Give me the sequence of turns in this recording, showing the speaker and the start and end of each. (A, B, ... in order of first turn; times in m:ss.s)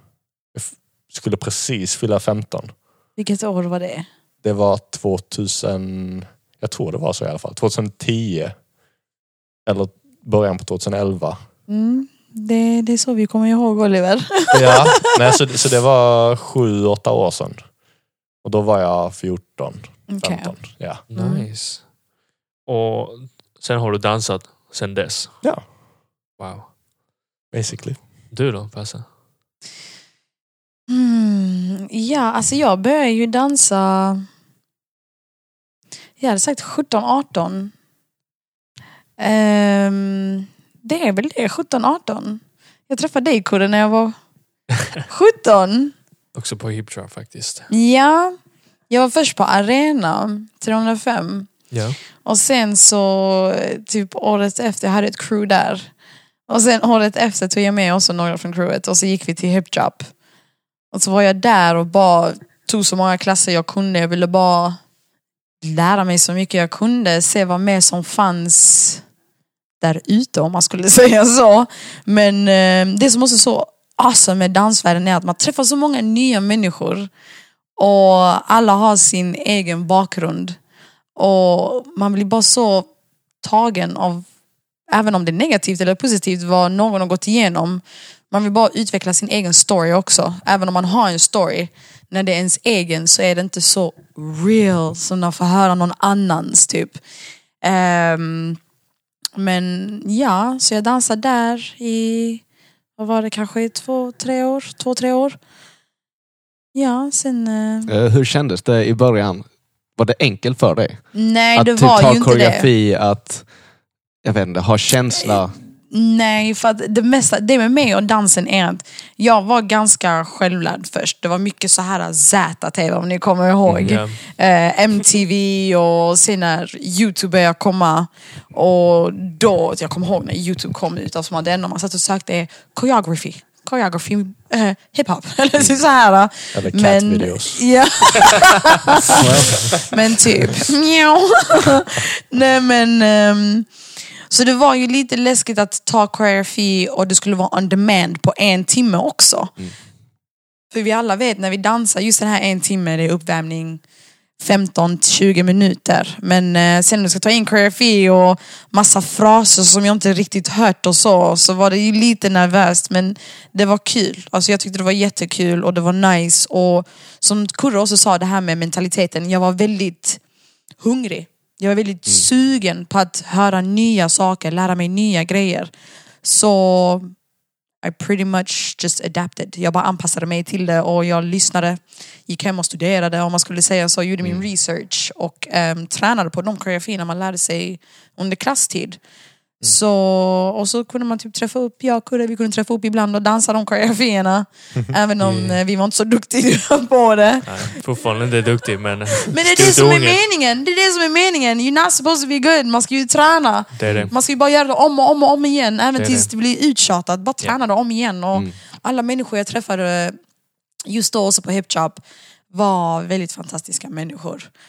0:00.5-0:02.7 A
0:03.2-0:04.0 B
0:04.4-0:08.5 A
0:09.6-0:11.4 A
0:11.7-0:15.2 B
0:14.5-0:17.6 A
0:18.4-0:21.0 A
0:20.1-0:20.6 B
0:21.1-0:21.8 C
0:21.1-0:21.5 B
0:22.6-0:25.4 C
0:26.4-0:26.7 C
0:27.5-0:28.0 A
0:28.3-0:29.0 C
0:30.9-0:34.2 B
0:36.2-0:37.7 B
0:39.2-0:44.1 B
0:45.1-0:45.9 B
0:46.3-0:47.7 C
0:47.7-0:48.4 B
0:48.9-0:51.5 B
0:51.7-0:52.0 C
0:52.2-0:55.9 B
0:56.5-1:00.1 B
1:00.9-1:04.8 B
1:05.6-1:09.0 B
1:09.8-1:17.1 B
1:17.8-1:20.6 B
1:21.2-1:22.9 B
1:23.4-1:24.2 B
1:24.9-1:37.0 B
1:37.6-1:38.6 B
1:39.4-1:42.4 B
1:43.0-1:45.4 B
1:46.7-1:47.9 B
1:47.9-1:49.4 D
1:50.0-1:53.4 D
1:51.1-1:52.7 B
1:54.2-1:55.5 D
1:55.2-2:23.7 B
2:03.7-2:03.9 D
2:03.8-2:04.2 C
2:16.5-2:17.6 A
2:19.2-2:19.7 D
2:24.3-2:29.5 B
2:30.7-2:33.8 B
2:34.4-2:50.2 B
2:50.8-2:55.7 B
2:56.2-2:57.1 B
2:57.8-3:09.0 B
3:09.6-3:17.8 B
3:15.2-3:15.6 C
3:17.4-3:20.2 C
3:19.2-3:30.1 B
3:23.7-3:24.1 C
3:23.8-3:24.1 D
3:25.9-3:26.3 C
3:30.9-3:32.0 B
3:32.5-3:34.5 B